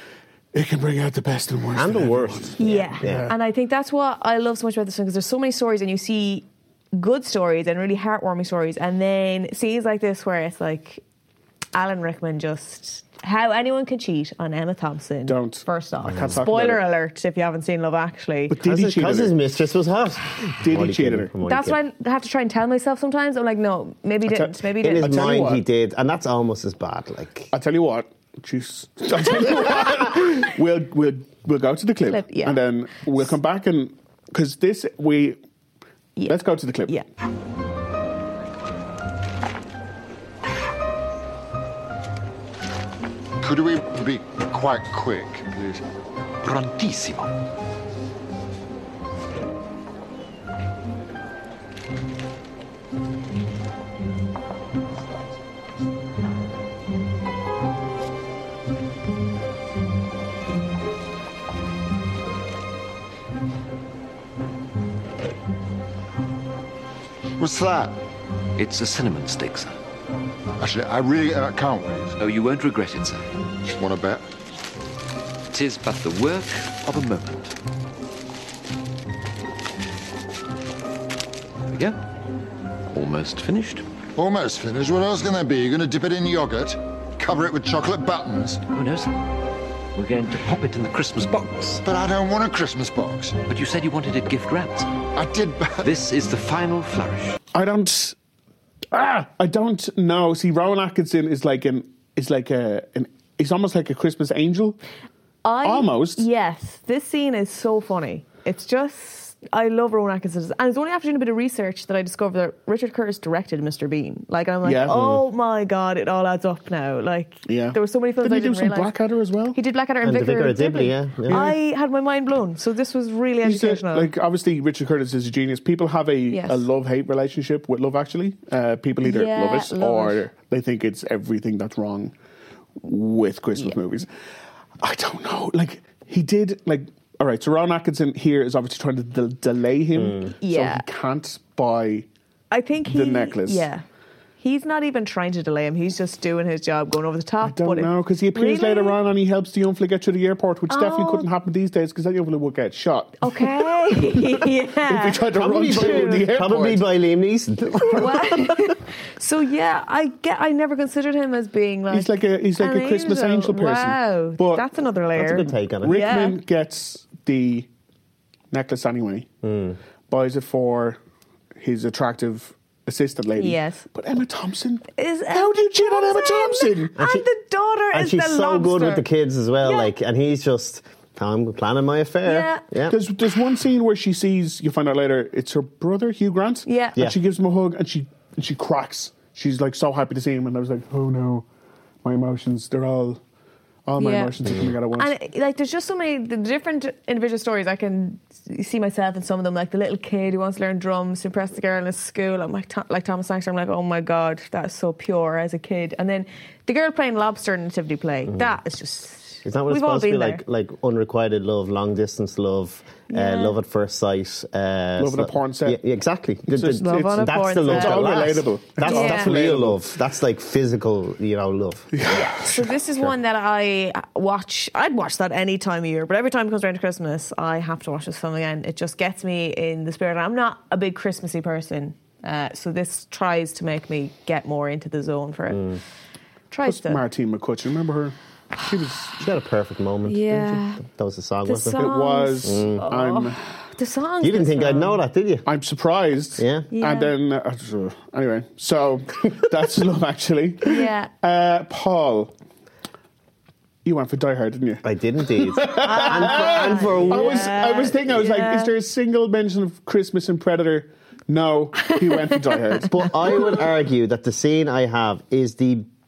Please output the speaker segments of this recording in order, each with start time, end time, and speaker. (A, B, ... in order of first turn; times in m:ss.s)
0:00.5-0:03.3 A
0:01.7-0:03.3 B
0:02.6-0:11.0 C
0:11.7-0:18.6 C
0:15.3-0:16.8 A
0:18.5-0:19.4 A
0:18.6-0:21.8 B
0:20.6-0:21.3 A
0:21.4-0:25.4 C
0:24.2-0:25.6 A
0:24.8-0:27.5 B
0:27.5-0:35.4 A
0:32.1-0:32.6 C
0:36.2-0:37.0 C
0:36.3-0:36.9 A
0:43.4-0:45.8 D
0:46.4-0:47.3 E
1:07.4-1:08.0 D
1:08.6-1:09.7 E
1:10.6-1:12.2 D
1:12.2-1:13.3 E
1:13.7-1:14.2 D
1:15.5-1:17.6 E
1:21.7-1:22.0 E
1:22.9-1:23.8 E
1:24.2-1:28.6 D
1:28.7-1:29.2 E
1:30.0-1:31.8 E
1:31.8-1:33.4 D
1:33.5-1:34.9 E
1:35.1-1:35.9 D
1:35.8-1:37.4 E
1:37.5-1:38.2 A
1:38.9-1:44.8 A
1:45.4-1:58.9 C
1:45.6-1:46.2 A
1:54.6-1:55.0 A
1:54.9-1:55.2 B
1:57.5-1:59.6 A
1:59.5-2:04.1 C
2:00.0-2:01.5 B
2:01.3-2:01.6 A
2:03.4-2:12.1 A
2:06.3-2:06.7 C
2:09.0-2:10.2 C
2:12.8-2:14.1 A
2:14.8-2:22.1 A
2:20.0-2:20.3 B
2:20.4-2:20.8 C
2:22.5-2:23.8 C
2:22.9-2:23.7 A
2:24.4-2:29.0 C
2:27.4-2:36.9 A
2:30.7-2:31.3 C
2:33.2-2:36.3 C
2:35.3-2:38.6 B
2:37.9-2:46.4 C
2:41.9-2:44.7 A
2:45.2-2:46.0 B
2:45.8-2:47.7 A
2:48.5-2:49.3 A
2:49.4-2:49.8 B
2:50.1-2:51.0 A
2:51.6-2:57.0 A
2:53.4-2:53.9 C
2:55.0-2:59.1 C
2:57.0-2:57.3 B
2:57.9-3:03.0 B
2:59.6-2:59.9 C
3:02.2-3:02.6 C
3:02.9-3:11.5 A
3:06.7-3:07.0 C
3:12.0-3:13.2 A
3:13.9-3:15.1 A
3:14.0-3:14.4 C
3:14.4-3:14.8 B
3:15.0-3:30.4 C
3:28.3-3:28.6 B
3:29.4-3:42.4 B
3:33.1-3:33.6 C
3:35.0-3:35.8 A
3:36.5-3:39.8 A
3:36.7-3:39.4 C
3:41.9-3:42.7 A
3:42.1-3:55.8 C
3:55.5-3:55.8 B
3:56.5-3:57.0 C
3:56.6-3:59.2 A
3:59.2-4:02.9 B
4:00.1-4:00.8 C
4:01.4-4:05.0 C
4:01.8-4:03.4 A
4:04.2-4:05.4 B
4:05.4-4:12.3 A
4:06.4-4:06.7 B
4:06.7-4:07.1 C
4:10.7-4:11.1 C
4:13.8-4:23.1 A
4:14.8-4:17.6 B
4:15.8-4:18.7 C
4:22.8-4:25.9 B